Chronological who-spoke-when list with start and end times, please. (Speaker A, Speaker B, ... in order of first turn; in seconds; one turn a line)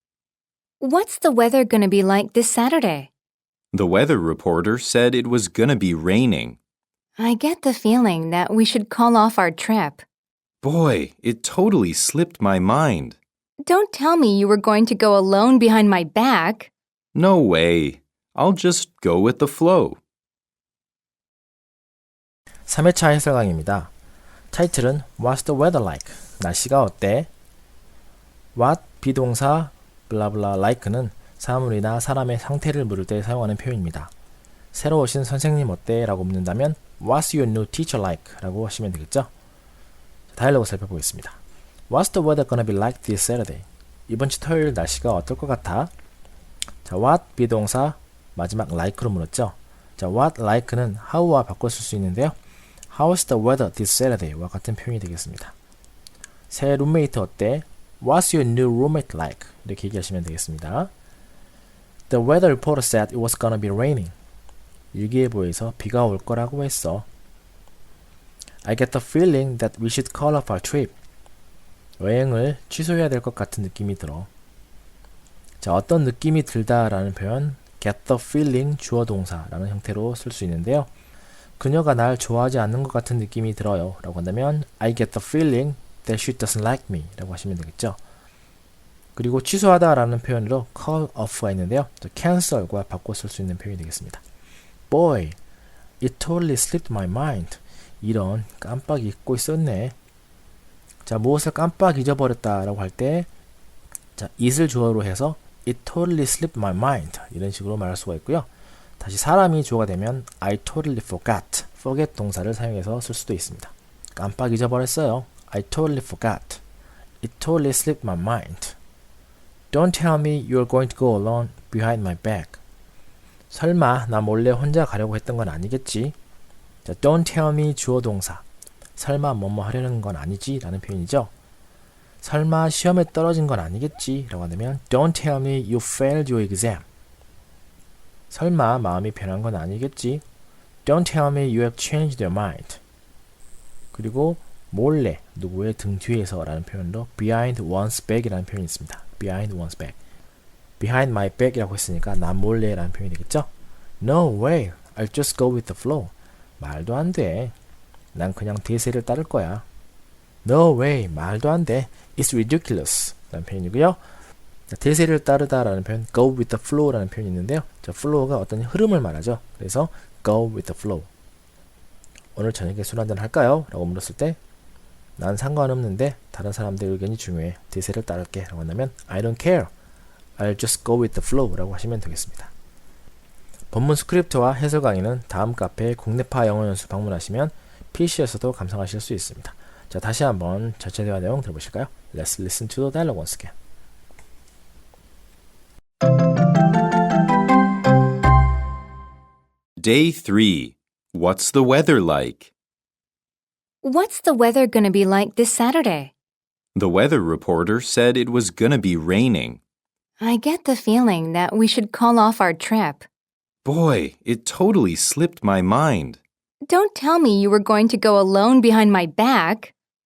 Speaker A: 0.8-3.1
Speaker B: 3.7-6.6
Speaker A: 7.2-10.0
Speaker B: 10.6-13.2
Speaker A: 13.6-16.7
Speaker B: 17.1-20.0
Speaker C: 22.7-23.9
Speaker C: 24.5-27.3
Speaker C: 28.6-34.1
Speaker C: 34.7-39.3
Speaker C: 40.3-41.4
Speaker C: 41.9-45.9
Speaker C: 46.9-52.4
Speaker C: 52.9-55.5
Speaker C: 56.5-60.9
Speaker C: 62.1-64.1
Speaker C: 64.9-67.1
Speaker C: 68.6-70.9
Speaker C: 72.0-74.3
Speaker C: 75.6-80.9
Speaker C: 81.6-88.0
Speaker C: 89.2-94.2
Speaker C: 94.9-95.4
Speaker C: 96.0-100.0
Speaker C: 101.1-103.3
Speaker C: 104.2-108.5
Speaker C: 109.0-116.6
Speaker C: 117.2-118.8
Speaker C: 119.7-122.6
Speaker C: 123.5-126.2
Speaker C: 126.8-128.4
Speaker C: 129.0-131.3
Speaker C: 132.2-136.8
Speaker C: 138.3-140.2
Speaker C: 140.8-142.8
Speaker C: 143.9-150.0
Speaker C: 150.8-153.5
Speaker C: 154.0-157.5
Speaker C: 158.2-159.6
Speaker C: 160.4-164.0
Speaker C: 164.7-171.1
Speaker C: 172.3-174.4
Speaker C: 175.2-179.7
Speaker C: 180.4-182.5
Speaker C: 183.7-193.5
Speaker B: 199.8-202.5
Speaker A: 203.8-206.1
Speaker B: 206.8-209.6
Speaker A: 210.2-213.1
Speaker B: 213.7-216.2
Speaker A: 216.7-219.7